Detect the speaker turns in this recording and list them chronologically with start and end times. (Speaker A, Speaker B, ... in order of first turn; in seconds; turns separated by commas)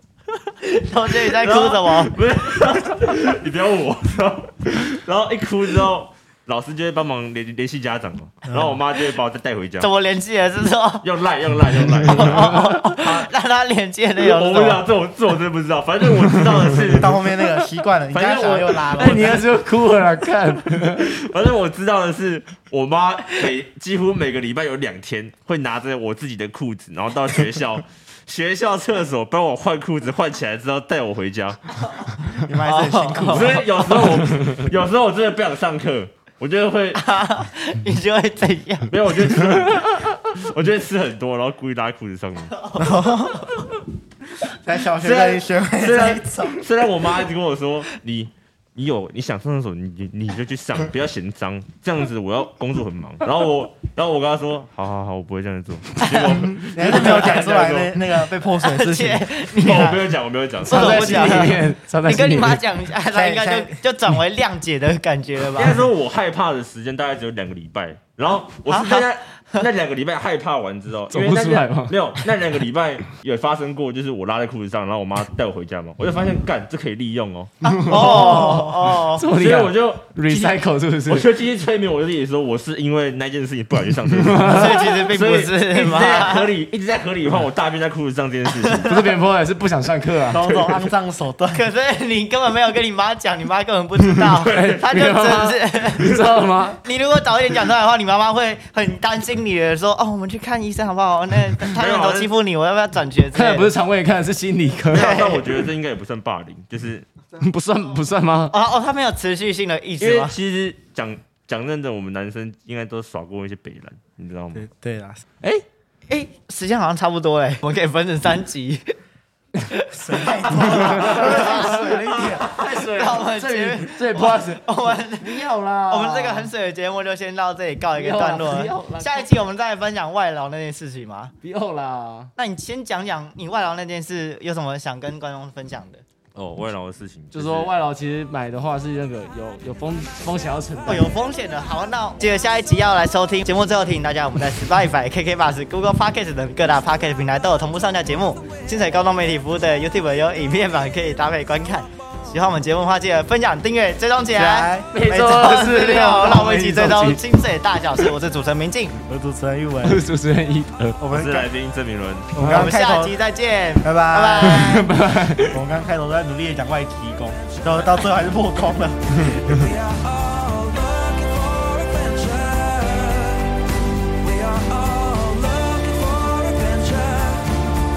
Speaker A: 0.6-2.1, Speaker B: 1.4-9.9, Speaker C: 8.5-8.8, Speaker A: 9.8-11.1, Speaker B: 11.0-13.3, Speaker A: 12.1-14.8, Speaker B: 14.2-17.2, Speaker C: 16.9-19.5, Speaker B: 18.1-19.4, Speaker D: 18.9-21.0, Speaker B: 20.7-31.7, Speaker C: 32.3-33.7, Speaker A: 32.6-33.8, Speaker B: 33.2-37.0, Speaker A: 37.0-38.9, Speaker B: 38.9-42.6, Speaker C: 42.8-43.5, Speaker A: 42.9-43.2, Speaker C: 44.5-46.6, Speaker B: 45.0-58.0, Speaker A: 56.0-57.5, Speaker C: 56.2-59.3, Speaker A: 58.6-60.0, Speaker B: 59.5-61.6, Speaker D: 60.6-62.6, Speaker A: 60.6-65.8, Speaker C: 63.1-63.8, Speaker B: 65.5-78.7, Speaker A: 68.7-69.6, Speaker D: 71.1-72.0, Speaker D: 77.6-81.2, Speaker A: 77.7-79.3, Speaker B: 79.3-89.0, Speaker D: 84.2-84.9, Speaker A: 84.4-86.5, Speaker A: 88.6-88.9, Speaker D: 88.8-90.4, Speaker C: 90.3-91.6, Speaker B: 90.3-90.8, Speaker A: 91.5-96.2, Speaker B: 94.4-94.9, Speaker D: 94.5-96.8, Speaker A: 96.8-103.7, Speaker B: 101.6-102.3, Speaker D: 103.3-105.1, Speaker B: 104.9-107.1, Speaker A: 104.9-105.5, Speaker D: 107.3-108.5, Speaker A: 108.5-110.3, Speaker B: 110.0-114.6, Speaker C: 114.5-115.2, Speaker A: 116.1-118.9, Speaker A: 119.7-121.9, Speaker C: 119.9-122.5, Speaker D: 120.7-126.5, Speaker A: 122.6-131.3, Speaker D: 128.0-129.3, Speaker D: 131.4-132.3, Speaker A: 132.3-136.0, Speaker B: 136.3-137.7, Speaker D: 137.3-141.1, Speaker A: 140.8-158.9, Speaker C: 154.3-154.9, Speaker D: 154.9-157.2, Speaker C: 159.1-160.0, Speaker D: 159.8-161.0, Speaker C: 161.0-161.5, Speaker B: 161.1-162.3, Speaker C: 162.3-163.1, Speaker D: 162.4-162.7, Speaker A: 162.4-164.9, Speaker C: 163.8-164.8, Speaker D: 164.4-165.6, Speaker C: 165.5-169.4, Speaker E: 169.3-173.6, Speaker E: 174.2-177.6